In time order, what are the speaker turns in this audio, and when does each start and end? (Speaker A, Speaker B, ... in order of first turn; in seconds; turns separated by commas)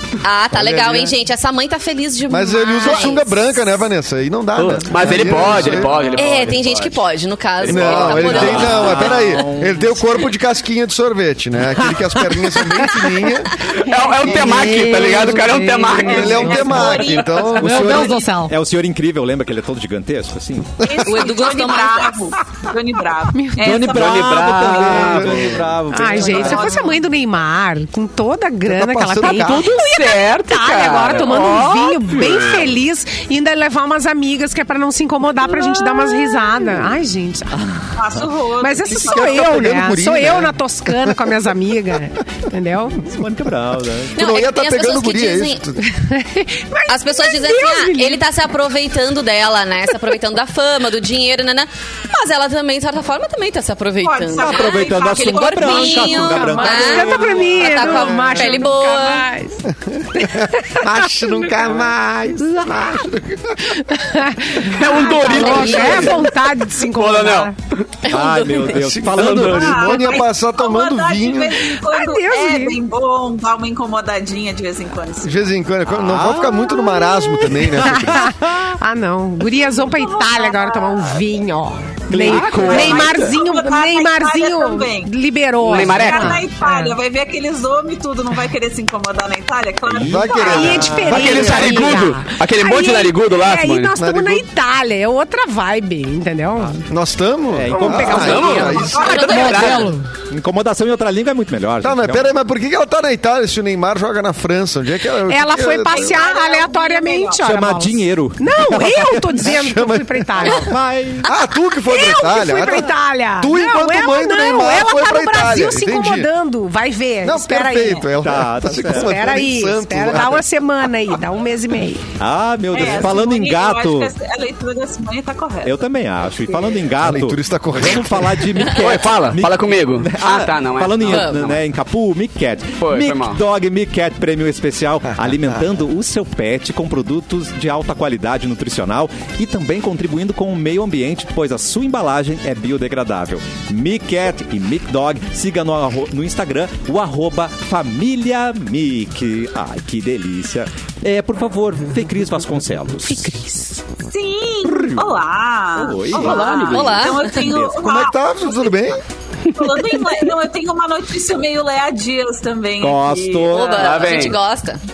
Speaker A: 0.2-3.7, Speaker B: 0.5-1.1, Speaker B: 2.3-6.2, Speaker C: 4.5-7.0, Speaker D: 5.3-6.0, Speaker A: 6.2-9.4, Speaker C: 7.6-8.8, Speaker B: 7.7-13.7, Speaker D: 8.2-10.1, Speaker D: 11.8-12.4, Speaker C: 13.7-16.9, Speaker B: 14.2-15.0, Speaker E: 14.2-18.6, Speaker F: 16.0-18.2, Speaker B: 16.1-18.2, Speaker D: 17.6-20.8, Speaker B: 20.8-21.2, Speaker F: 20.8-25.1, Speaker A: 21.0-22.2, Speaker E: 23.3-23.6, Speaker D: 23.6-26.9, Speaker C: 23.8-25.6, Speaker B: 24.9-25.6, Speaker E: 25.9-37.6, Speaker F: 26.1-27.0, Speaker B: 28.7-29.8, Speaker C: 29.2-32.6, Speaker D: 37.5-38.2, Speaker F: 37.9-39.7, Speaker E: 38.6-43.1, Speaker B: 38.9-41.5, Speaker D: 43.0-44.2, Speaker A: 44.1-45.6, Speaker B: 44.1-45.8, Speaker E: 45.8-48.2, Speaker A: 46.9-59.3, Speaker F: 54.0-56.8, Speaker D: 54.4-57.8, Speaker E: 56.2-61.3, Speaker B: 59.7-63.8, Speaker D: 62.4-63.0, Speaker E: 63.7-67.5, Speaker C: 64.7-67.9, Speaker A: 65.2-66.2, Speaker B: 65.3-66.1, Speaker A: 68.0-68.8, Speaker D: 68.1-70.2, Speaker B: 68.7-71.6, Speaker C: 69.1-69.6, Speaker F: 69.4-75.5, Speaker E: 71.8-72.8, Speaker B: 75.2-78.3, Speaker D: 75.9-76.8, Speaker E: 76.7-87.0, Speaker D: 77.6-78.7, Speaker F: 79.6-81.2, Speaker D: 82.1-83.1, Speaker C: 82.2-83.3, Speaker F: 82.5-90.9, Speaker C: 85.6-86.4, Speaker D: 89.9-91.4, Speaker B: 90.0-92.0, Speaker E: 90.4-96.9, Speaker C: 91.0-93.9, Speaker B: 94.0-94.4, Speaker B: 96.9-99.4, Speaker D: 97.5-98.7, Speaker E: 97.7-100.1, Speaker C: 98.0-99.9, Speaker F: 98.3-99.8, Speaker A: 99.1-99.5, Speaker D: 100.3-102.3, Speaker B: 101.8-106.2, Speaker E: 105.3-110.8, Speaker F: 105.8-107.4, Speaker D: 107.4-109.5, Speaker B: 109.4-110.6, Speaker D: 110.5-111.3, Speaker B: 111.2-116.3, Speaker E: 111.8-118.1, Speaker B: 117.2-120.5, Speaker D: 118.2-119.4, Speaker E: 118.8-122.0, Speaker D: 122.2-124.1, Speaker F: 122.7-125.8, Speaker D: 125.6-153.4, Speaker F: 126.5-126.8, Speaker B: 127.0-128.6, Speaker C: 128.7-131.6, Speaker A: 131.0-131.5, Speaker C: 132.8-133.4, Speaker E: 153.1-153.8, Speaker F: 154.0-158.8, Speaker D: 154.7-155.2, Speaker D: 155.8-157.8, Speaker C: 156.1-157.1, Speaker A: 156.6-157.3, Speaker B: 157.8-159.0, Speaker F: 159.5-164.3, Speaker D: 162.8-163.9, Speaker A: 163.5-164.8, Speaker C: 163.8-164.4